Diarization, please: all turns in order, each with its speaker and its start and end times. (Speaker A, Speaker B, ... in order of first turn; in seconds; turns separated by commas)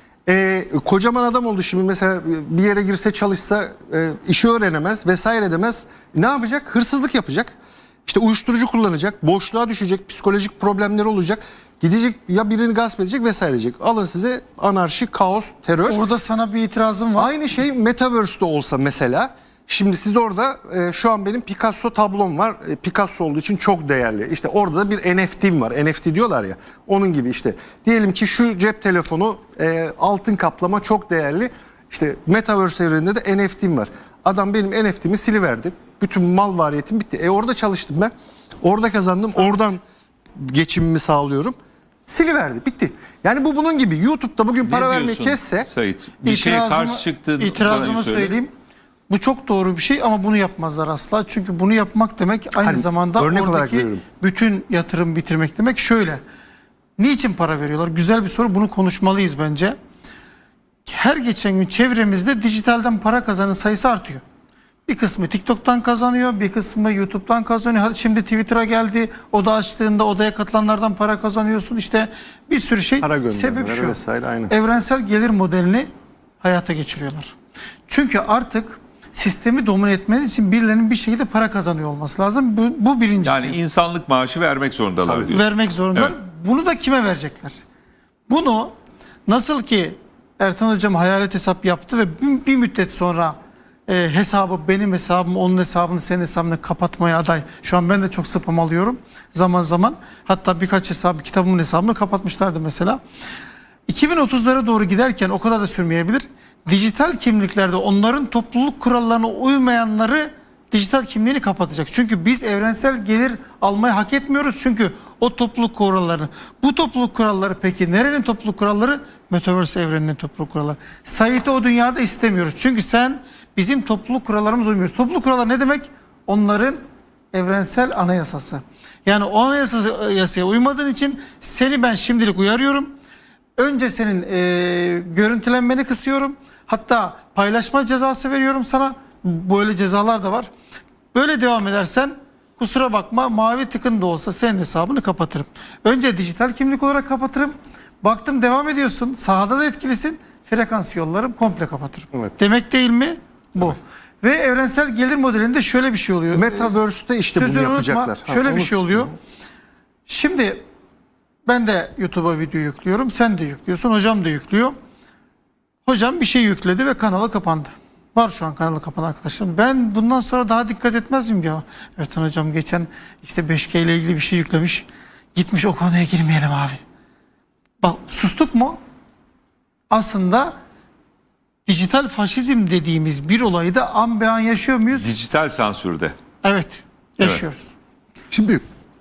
Speaker A: 0.3-7.5, Speaker A: 8.1-16.0, Speaker B: 15.9-17.3, Speaker A: 17.1-39.8, Speaker A: 40.3-45.7, Speaker C: 44.6-48.3, Speaker B: 46.2-48.5, Speaker B: 49.1-56.2, Speaker A: 52.6-54.0, Speaker B: 57.0-59.8, Speaker B: 60.9-64.2, Speaker B: 64.9-74.0, Speaker A: 73.0-74.5, Speaker B: 74.5-75.9, Speaker B: 76.4-77.3, Speaker B: 77.9-83.6, Speaker C: 83.2-85.4, Speaker B: 85.2-87.6, Speaker B: 88.3-88.7, Speaker B: 89.3-103.0, Speaker B: 103.9-126.8, Speaker B: 127.3-132.9, Speaker B: 133.6-140.5, Speaker B: 141.1-156.8, Speaker A: 156.3-159.1, Speaker B: 157.3-159.1, Speaker B: 160.1-160.6, Speaker B: 161.4-164.8, Speaker B: 165.8-176.8, Speaker B: 177.8-178.8, Speaker B: 179.9-180.5, Speaker B: 181.7-185.1, Speaker C: 184.9-186.1, Speaker B: 186.4-187.7, Speaker A: 188.3-188.6